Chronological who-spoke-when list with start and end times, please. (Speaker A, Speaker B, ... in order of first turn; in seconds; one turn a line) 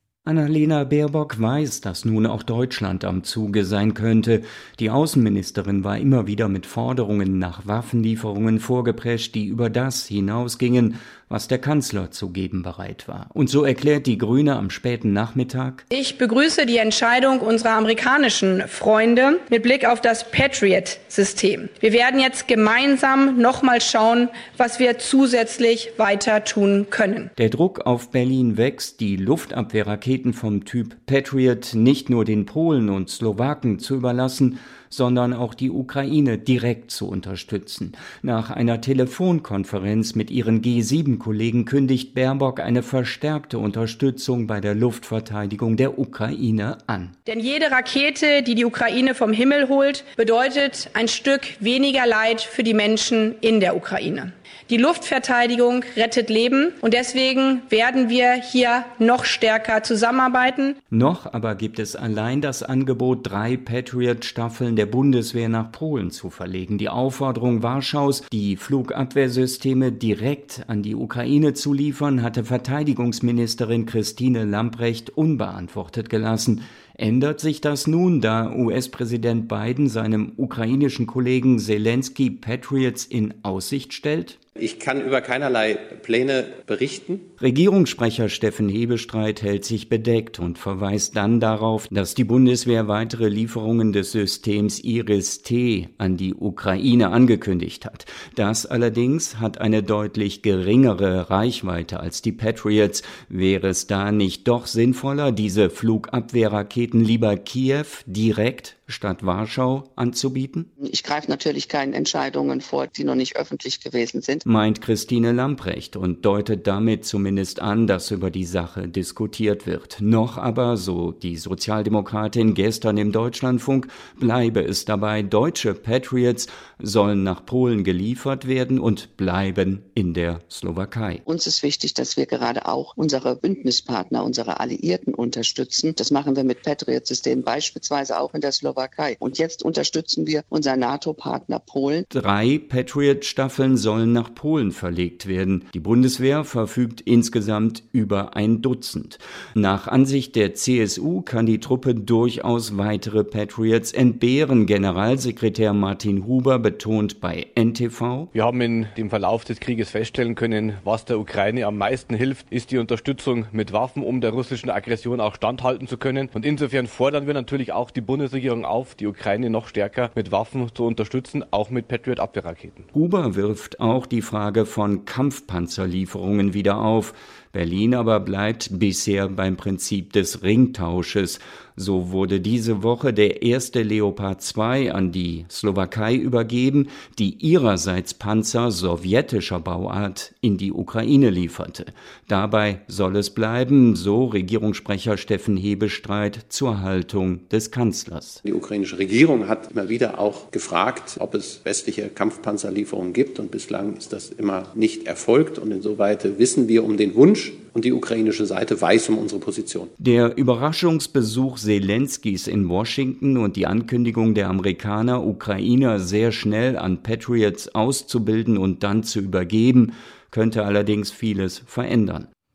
Speaker A: 0.3-15.8
Speaker B: 15.9-27.3
Speaker A: 27.4-47.2
Speaker B: 47.3-60.8
Speaker A: 60.9-84.4
Speaker C: 84.6-87.3
Speaker A: 87.4-110.7
Speaker D: 110.8-114.4
Speaker A: 114.5-131.2
Speaker D: 131.3-142.1
Speaker A: 142.1-158.3
Speaker E: 158.3-172.9
Speaker A: 172.9-198.4
Speaker C: 198.4-209.9
Speaker A: 210.0-222.3